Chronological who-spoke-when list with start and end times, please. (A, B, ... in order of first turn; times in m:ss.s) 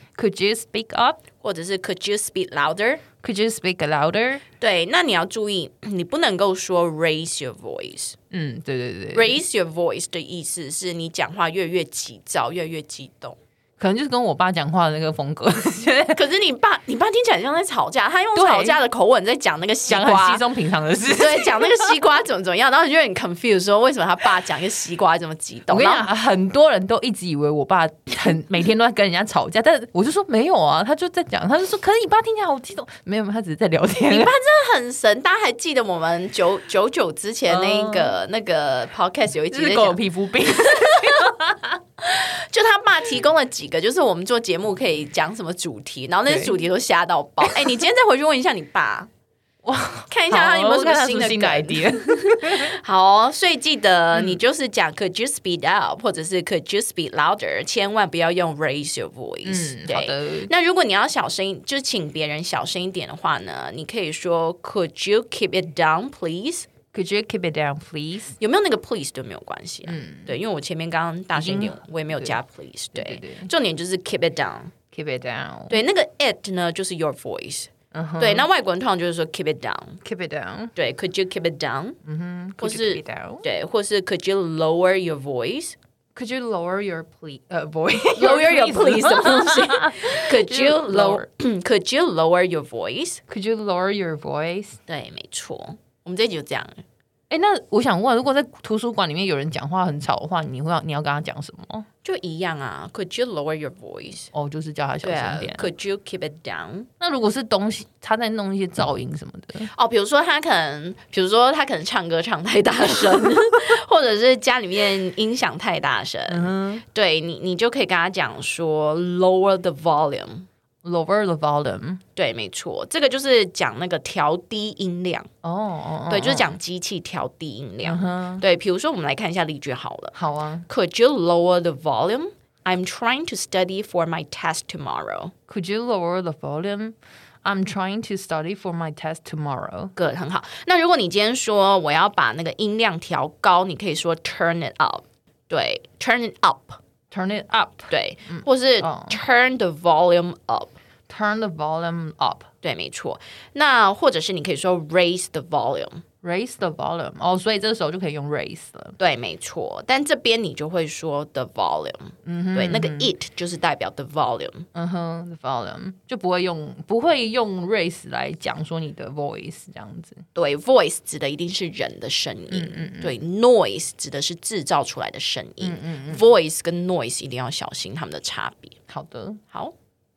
0:00.2-0:01.2 A
0:01.4-0:03.0 B
0:03.2-0:04.4 A
0:04.6-0:08.2 B
0:08.3-0:09.4 A
0:09.1-0:13.4 B
0:13.8-0:16.2 A
0:16.1-0:20.4 B
0:18.4-0:18.8 A
0:19.9-0:21.9 A
0:21.2-0:26.1 B
0:25.7-0:34.3 A
0:34.1-0:40.0 B
0:37.5-0:38.1 A
0:39.5-0:41.8 A
0:42.0-0:49.1 B
0:46.3-0:46.5 A
0:47.4-0:47.8 A
0:49.6-0:52.7 A
0:50.1-1:06.7 B
0:59.4-1:00.5 A
1:06.9-1:08.4 A
1:08.4-1:14.7 B
1:09.9-1:10.4 A
1:11.4-1:12.4 A
1:13.0-1:13.5 A
1:14.9-1:15.8 A
1:15.7-1:20.0 B
1:17.9-1:18.5 A
1:20.0-1:20.7 A
1:20.8-1:22.0 B
1:22.0-1:23.4 A
1:22.6-1:25.8 B
1:26.2-1:31.3 A
1:28.2-1:33.2 B
1:33.3-1:34.8 A
1:34.9-1:36.8 B
1:37.3-1:41.9 A
1:42.0-1:44.3 B
1:44.3-1:45.7 A
1:45.0-1:46.9 B
1:47.0-1:49.7 A
1:49.7-2:00.5 B
1:56.3-1:56.8 A
2:00.8-2:02.0 A
2:02.2-2:05.3 B
2:05.4-2:06.5 A
2:06.1-2:10.2 B
2:07.8-2:08.4 A
2:10.1-2:10.7 A
2:10.7-2:15.3 B
2:15.5-2:19.9 A
2:20.0-2:26.8 B
2:27.1-2:29.2 A
2:27.9-2:30.8 B
2:31.1-2:32.5 A
2:32.6-2:36.0 B
2:36.2-2:39.0 A
2:39.0-2:44.7 B
2:42.2-2:43.1 A
2:44.7-2:50.2 A
2:50.4-2:58.8 B
2:52.5-2:53.2 A
2:55.6-2:56.2 A
2:58.9-2:59.4 A